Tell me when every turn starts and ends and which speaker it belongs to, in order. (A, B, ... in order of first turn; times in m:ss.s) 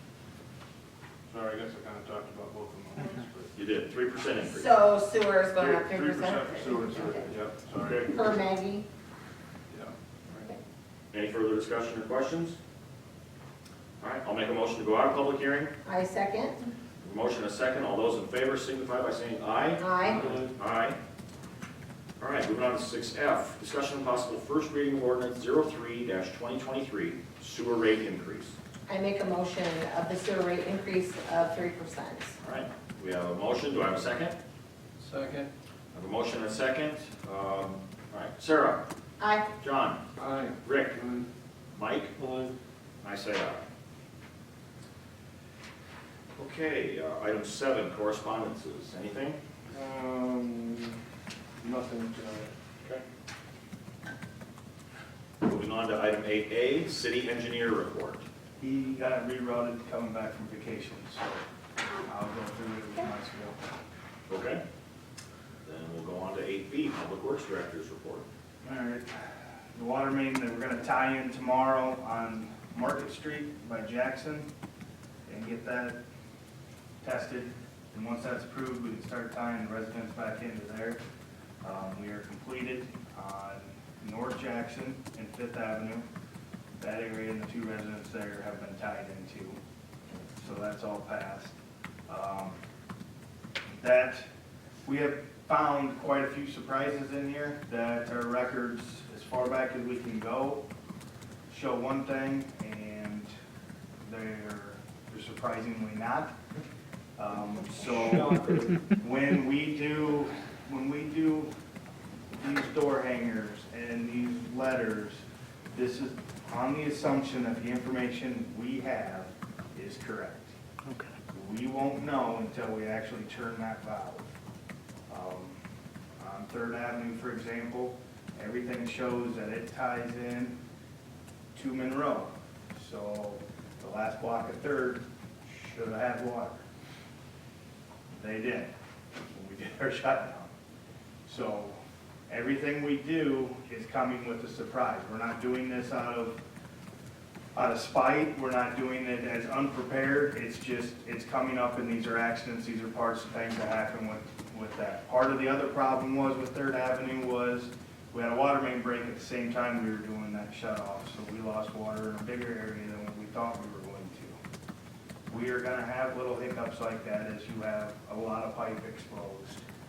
0:01.3-0:03.5 A
0:03.6-0:04.7 B
0:04.4-0:07.3 C
0:05.6-0:08.2 A
0:07.8-0:08.2 B
0:08.1-0:08.8 C
0:11.1-0:12.6 B
0:14.0-0:15.7 B
0:15.8-0:16.7 C
0:17.0-0:21.0 B
0:19.8-0:20.2 C
0:20.1-0:20.4 A
0:22.2-0:28.6 B
0:28.9-0:32.4 C
0:32.4-0:34.4 B
0:35.9-0:38.8 B
0:39.2-0:39.5 C
0:39.6-0:40.0 B
0:40.2-0:41.2 A
0:40.6-0:41.0 B
0:41.7-0:42.1 B
0:43.0-0:43.6 B
0:46.4-0:49.4 B
0:49.7-0:51.0 A
0:51.6-0:52.5 A
0:55.4-0:58.2 B
0:58.6-1:01.4 D
1:02.0-1:03.6 D
1:04.3-1:04.6 B
1:05.6-1:08.2 B
1:08.6-1:14.5 D
1:15.3-1:16.0 D
1:17.0-1:21.0 D
1:21.6-1:26.0 D
1:26.8-1:29.6 D
1:30.4-1:31.6 D
1:32.1-1:32.6 D
1:33.7-1:34.3 D
1:34.8-1:40.6 D
1:41.5-1:43.3 D
1:44.0-1:46.3 D
1:47.2-1:51.5 D
1:52.3-1:55.2 D
1:55.7-2:00.5 D
2:01.3-2:04.3 D
2:05.1-2:05.6 D
2:06.2-2:10.6 D
2:11.6-2:16.6 D
2:18.1-2:18.7 D
2:19.3-2:20.5 D
2:21.3-2:21.8 D
2:22.3-2:26.4 D
2:27.6-2:44.4 D
2:45.3-2:49.6 D